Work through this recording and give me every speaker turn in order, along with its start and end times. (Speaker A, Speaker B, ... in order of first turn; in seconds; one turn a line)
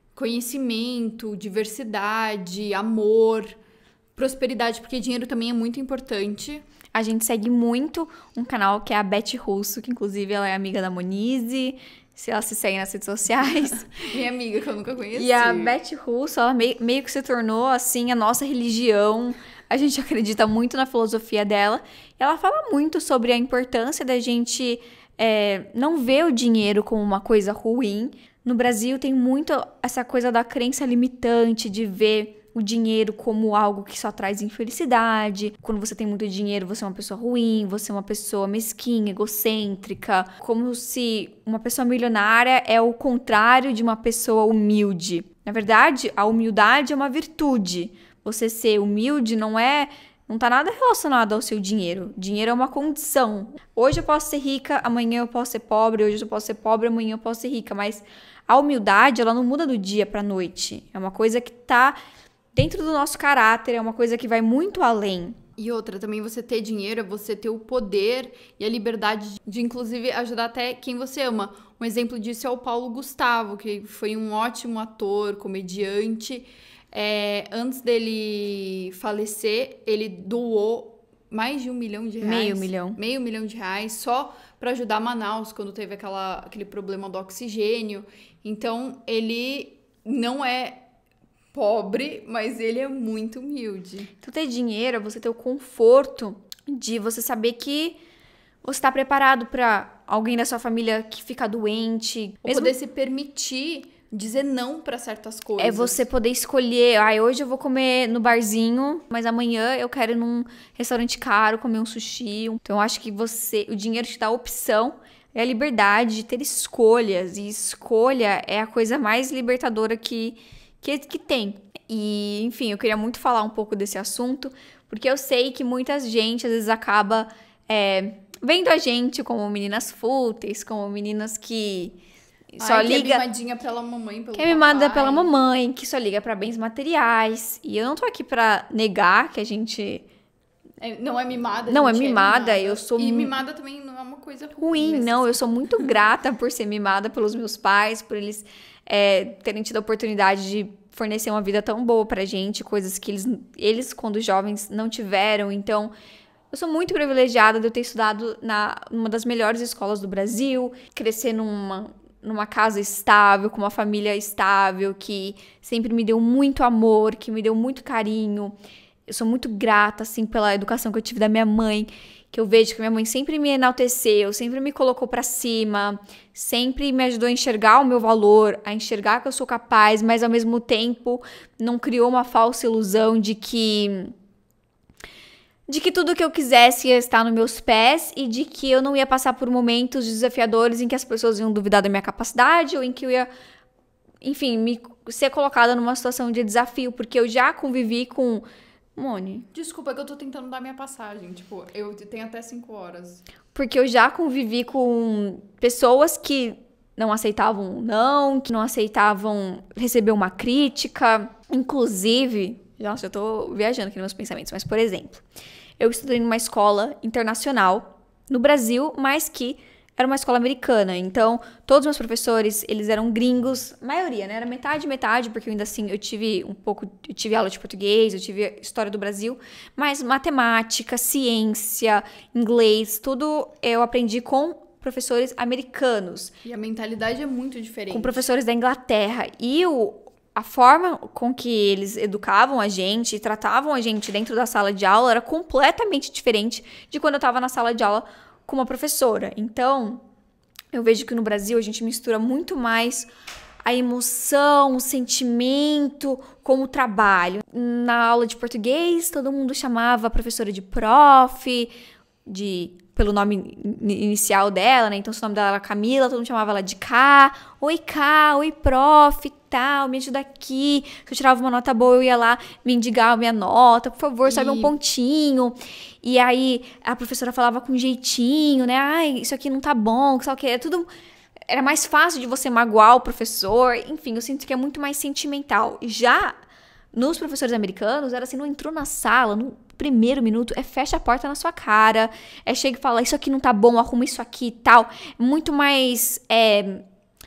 Speaker A: 0.2-3.6
Speaker A: 4.2-6.6
Speaker B: 6.9-14.0
Speaker A: 14.0-15.8
Speaker B: 15.2-62.0
Speaker B: 62.5-65.4
Speaker A: 65.6-90.8
Speaker B: 82.2-83.0
Speaker A: 91.5-94.1
Speaker B: 94.2-98.0
Speaker B: 98.6-102.7
Speaker A: 102.5-106.0
Speaker B: 105.6-132.0
Speaker B: 132.6-133.2
Speaker A: 132.6-135.3
Speaker B: 134.3-140.1
Speaker A: 140.8-145.9
Speaker B: 141.7-143.3
Speaker B: 144.6-155.9
Speaker B: 156.5-168.5
Speaker B: 169.1-184.1
Speaker B: 185.7-193.3
Speaker B: 194.2-198.4
Speaker B: 199.0-199.5
Speaker A: 199.5-203.2
Speaker B: 203.5-215.2
Speaker B: 215.8-236.3
Speaker A: 236.4-238.2
Speaker B: 237.9-250.0
Speaker B: 250.7-253.1
Speaker B: 253.7-261.7
Speaker B: 262.3-280.9
Speaker A: 274.2-274.7
Speaker B: 281.5-286.4
Speaker B: 286.9-296.8